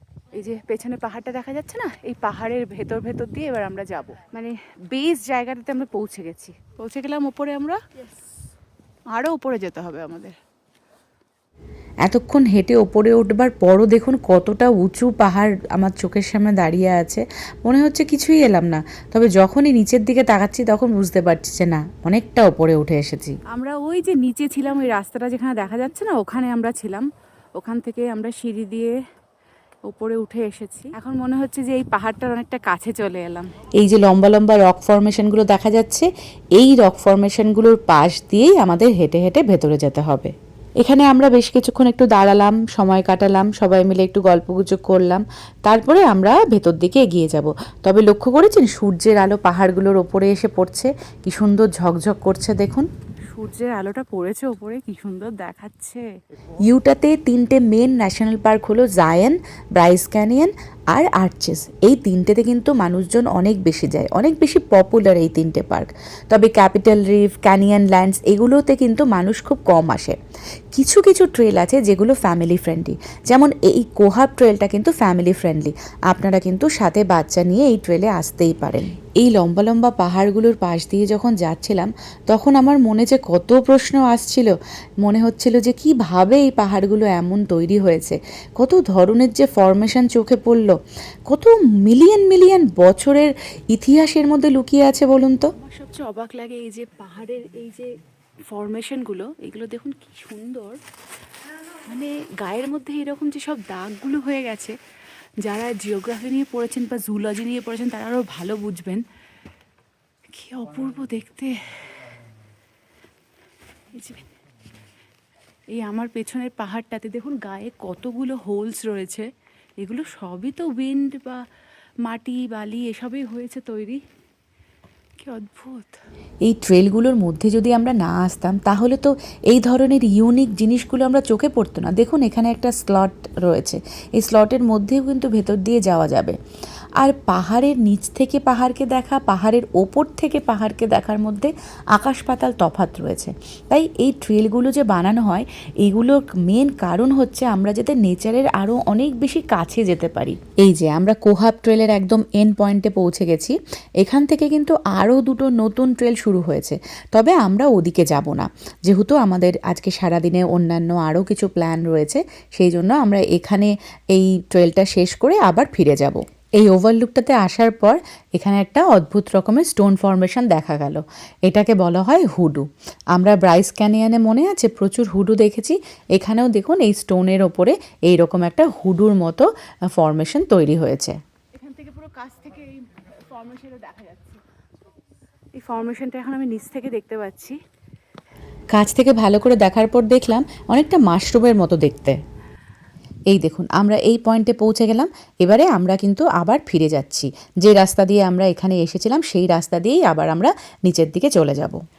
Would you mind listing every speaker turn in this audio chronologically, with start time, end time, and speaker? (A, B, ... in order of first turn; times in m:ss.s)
0:00.3-0:07.8 A
0:09.1-0:10.4 A
0:12.0-0:23.4 B
0:23.5-0:28.9 A
0:29.9-0:33.5 A
0:33.8-0:52.9 B
0:53.3-0:56.0 A
0:56.6-1:10.2 B
1:10.8-1:30.7 B
1:31.3-1:35.5 B
1:35.6-1:37.9 A
1:38.5-1:40.8 A
1:41.9-1:44.8 A
1:45.4-1:49.0 A
1:50.3-1:52.0 A
1:53.9-1:54.3 A
1:55.7-1:59.3 A
1:59.8-2:01.4 A
2:02.0-2:04.0 A
2:05.2-2:06.0 A
2:06.4-2:16.4 B
2:17.0-3:01.2 B
3:01.6-3:04.4 A
3:05.6-3:07.6 A
3:08.7-3:12.2 B
3:13.3-3:21.8 B